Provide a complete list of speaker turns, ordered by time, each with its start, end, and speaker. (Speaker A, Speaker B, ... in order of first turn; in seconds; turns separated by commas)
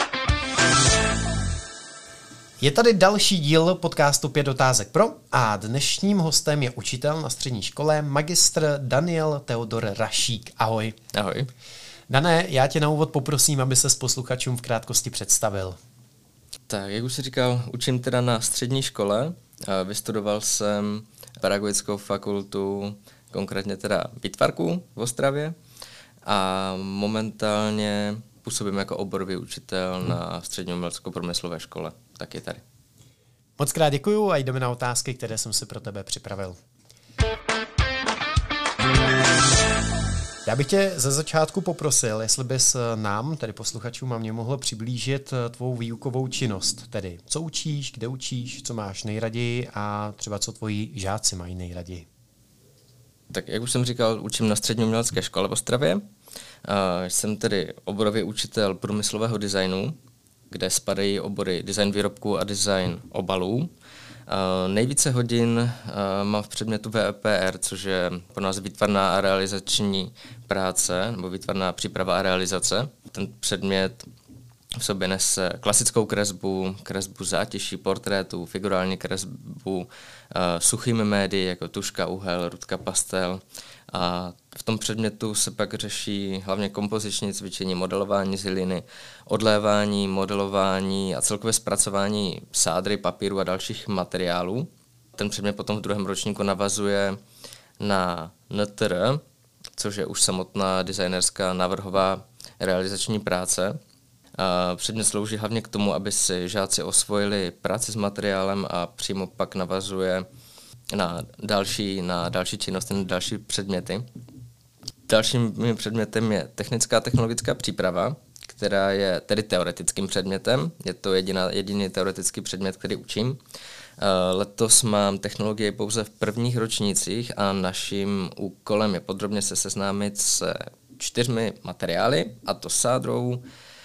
Speaker A: 2.6-10.9, Speaker B: 11.1-11.5, Speaker A: 12.1-15.8, Speaker B: 16.7-25.5, Speaker B: 26.2-32.6, Speaker A: 33.6-36.6, Speaker A: 40.5-52.1, Speaker B: 53.3-56.0, Speaker B: 56.6-59.9, Speaker B: 60.5-63.7, Speaker B: 64.3-74.1, Speaker B: 74.8-97.2, Speaker B: 97.8-99.2, Speaker B: 99.8-103.8, Speaker B: 104.4-110.2, Speaker B: 110.9-114.0, Speaker B: 115.1-123.4, Speaker B: 124.0-133.4